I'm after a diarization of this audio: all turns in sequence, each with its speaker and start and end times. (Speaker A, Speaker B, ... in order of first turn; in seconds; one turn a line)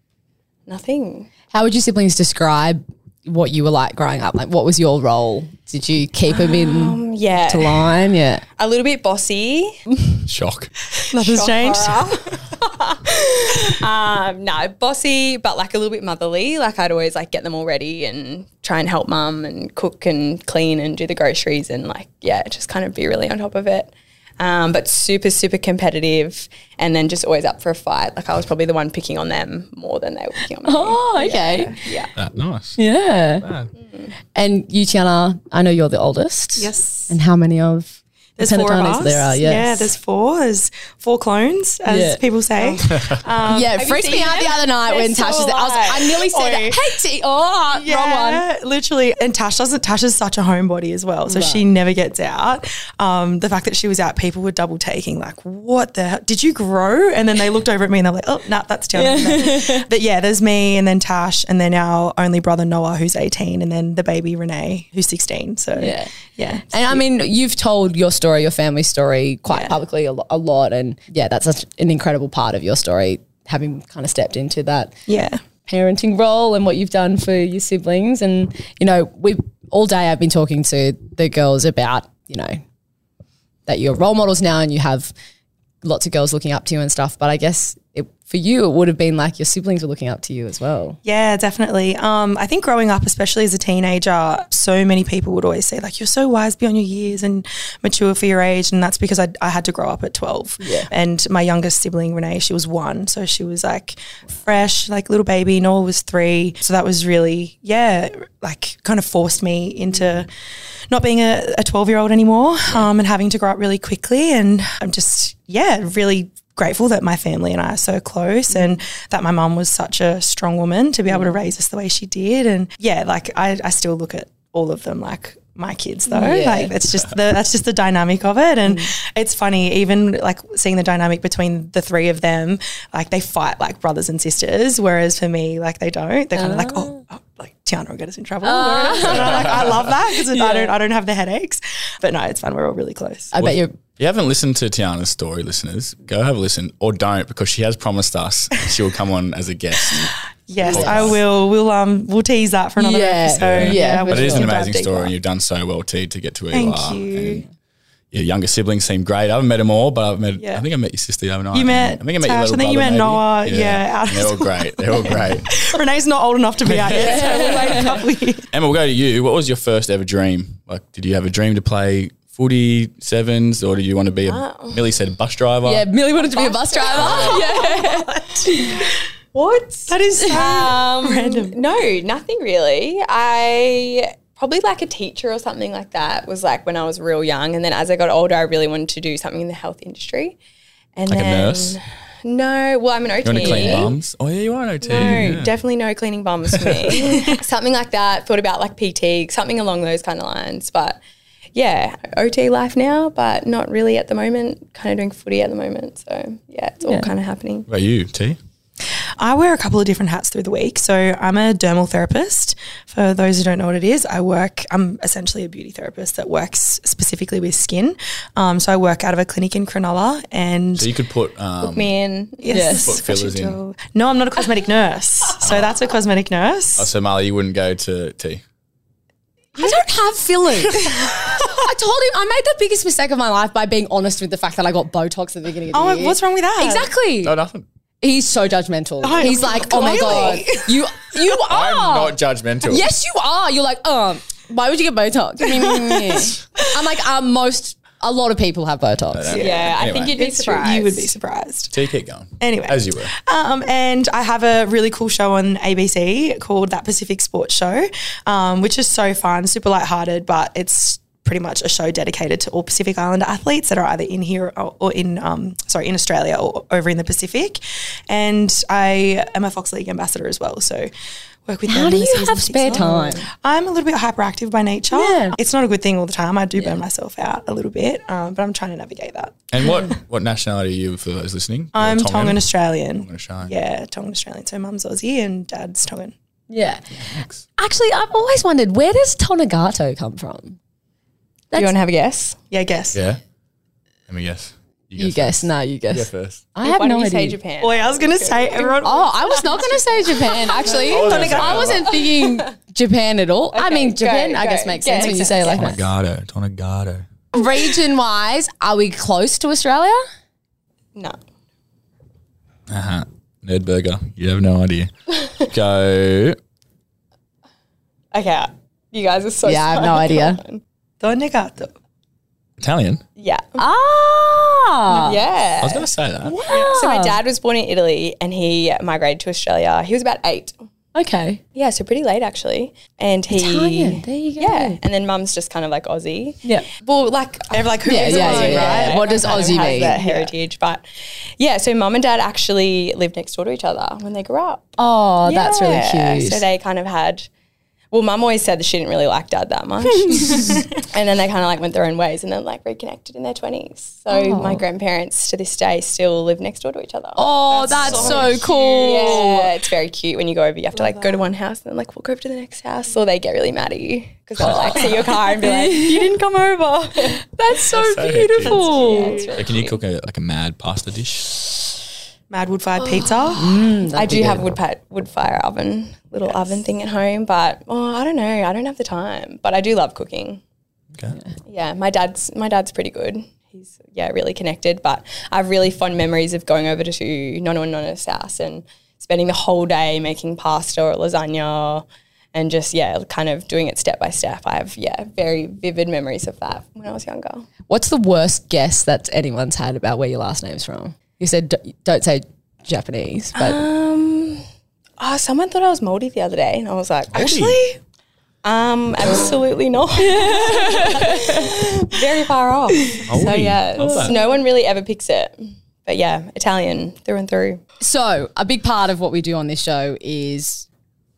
Speaker A: 0.7-1.3
Speaker B: 1.5-8.4
Speaker A: 6.3-7.9
Speaker A: 8.6-10.0
Speaker C: 10.2-10.7
Speaker D: 10.9-12.4
Speaker A: 11.1-32.1
Speaker B: 30.6-31.8
Speaker C: 32.1-32.8
Speaker B: 32.8-33.5
Speaker C: 33.4-33.7
Speaker A: 33.8-34.1
Speaker B: 34.3-39.9
Speaker D: 36.6-37.1
Speaker D: 38.4-44.1
Speaker B: 41.9-42.8
Speaker B: 43.4-48.4
Speaker A: 43.8-46.2
Speaker D: 46.3-46.8
Speaker D: 47.7-67.0
Speaker B: 51.3-51.7
Speaker B: 58.9-59.8
Speaker B: 65.8-66.1
Speaker B: 66.7-75.0
Speaker D: 69.5-69.8
Speaker D: 75.1-75.4
Speaker B: 75.7-82.6
Speaker B: 83.7-85.1
Speaker B: 85.8-91.0
Speaker D: 91.0-110.3
Speaker B: 100.6-100.9
Speaker D: 110.9-143.3
Speaker B: 121.1-121.4
Speaker B: 126.1-126.7
Speaker B: 128.7-128.9
Speaker B: 136.3-137.0
Speaker B: 138.4-139.7
Speaker C: 139.0-139.9
Speaker B: 140.2-140.8
Speaker B: 143.3-143.7
Speaker C: 143.4-150.1
Speaker D: 149.9-155.1
Speaker B: 150.7-151.2
Speaker C: 150.7-151.2
Speaker B: 152.8-154.5
Speaker C: 153.4-157.5
Speaker D: 156.5-157.4
Speaker C: 158.1-165.5
Speaker D: 160.4-160.7
Speaker D: 161.5-168.5
Speaker C: 166.6-167.9
Speaker B: 167.0-167.9
Speaker C: 168.5-175.8
Speaker A: 174.2-174.8
Speaker B: 175.6-178.8
Speaker A: 176.2-177.8
Speaker C: 177.0-177.4
Speaker D: 177.6-178.9
Speaker A: 179.3-190.4
Speaker D: 179.9-181.6
Speaker A: 190.9-193.9
Speaker C: 191.1-191.8
Speaker C: 193.2-195.5
Speaker A: 194.8-201.0
Speaker C: 196.5-196.9
Speaker D: 196.9-197.3
Speaker A: 201.5-207.7
Speaker B: 206.8-207.1
Speaker C: 207.7-208.4
Speaker D: 209.2-220.9
Speaker C: 220.7-221.9
Speaker A: 221.6-222.7
Speaker D: 222.4-226.9
Speaker B: 222.5-222.9
Speaker C: 222.7-223.6
Speaker C: 225.4-225.7
Speaker C: 226.8-228.4
Speaker B: 229.6-237.3
Speaker D: 230.7-231.5
Speaker D: 235.7-236.9
Speaker C: 237.2-237.6
Speaker B: 238.0-249.3
Speaker D: 239.0-240.8
Speaker C: 241.4-242.9
Speaker D: 245.6-246.4
Speaker C: 249.1-250.1
Speaker D: 249.3-251.8
Speaker A: 249.3-251.1
Speaker C: 251.7-253.1
Speaker D: 252.4-270.9
Speaker D: 271.4-279.8
Speaker B: 271.7-273.2
Speaker A: 272.7-273.0
Speaker B: 274.9-275.4
Speaker C: 279.5-283.5
Speaker D: 281.7-286.1
Speaker B: 286.5-286.9
Speaker C: 286.9-287.4
Speaker B: 287.6-290.6
Speaker A: 291.5-292.4
Speaker D: 292.5-293.0
Speaker C: 292.9-293.2
Speaker C: 294.1-296.4
Speaker B: 294.9-297.4
Speaker A: 296.6-298.8
Speaker D: 297.6-299.7
Speaker B: 298.8-305.8
Speaker A: 300.3-301.4
Speaker D: 300.6-301.7
Speaker C: 300.8-301.9
Speaker A: 302.0-302.4
Speaker A: 303.5-305.6
Speaker C: 305.5-307.1
Speaker B: 307.3-310.0
Speaker C: 312.7-316.4
Speaker A: 318.1-320.6
Speaker B: 319.4-320.4
Speaker D: 321.0-321.7
Speaker C: 322.6-323.0
Speaker A: 323.2-323.6
Speaker B: 323.6-325.2
Speaker A: 324.9-325.9
Speaker C: 325.6-326.4
Speaker B: 326.2-327.2
Speaker A: 326.5-330.5
Speaker D: 326.5-326.8
Speaker B: 330.9-331.4
Speaker A: 331.5-340.8
Speaker B: 333.3-334.8
Speaker D: 337.5-340.3
Speaker B: 337.8-340.0
Speaker A: 341.4-347.3
Speaker B: 344.8-346.4
Speaker A: 347.9-367.2
Speaker B: 350.0-350.6
Speaker B: 354.1-354.6
Speaker B: 357.1-359.5
Speaker D: 357.5-359.2
Speaker C: 357.8-358.4
Speaker D: 360.7-361.2
Speaker B: 364.4-366.1
Speaker D: 366.5-366.9
Speaker B: 367.3-369.3
Speaker C: 367.7-368.6
Speaker A: 368.4-369.8
Speaker D: 368.6-369.4
Speaker C: 369.4-371.3
Speaker D: 372.3-373.6
Speaker A: 372.8-373.3
Speaker B: 373.3-374.4
Speaker A: 373.9-380.4
Speaker A: 381.5-397.5
Speaker B: 397.7-403.6
Speaker A: 403.4-404.4
Speaker A: 405.0-407.4
Speaker C: 407.1-407.6
Speaker D: 407.1-407.8
Speaker A: 408.4-417.6
Speaker B: 410.0-411.5
Speaker C: 413.1-414.1
Speaker B: 417.8-420.7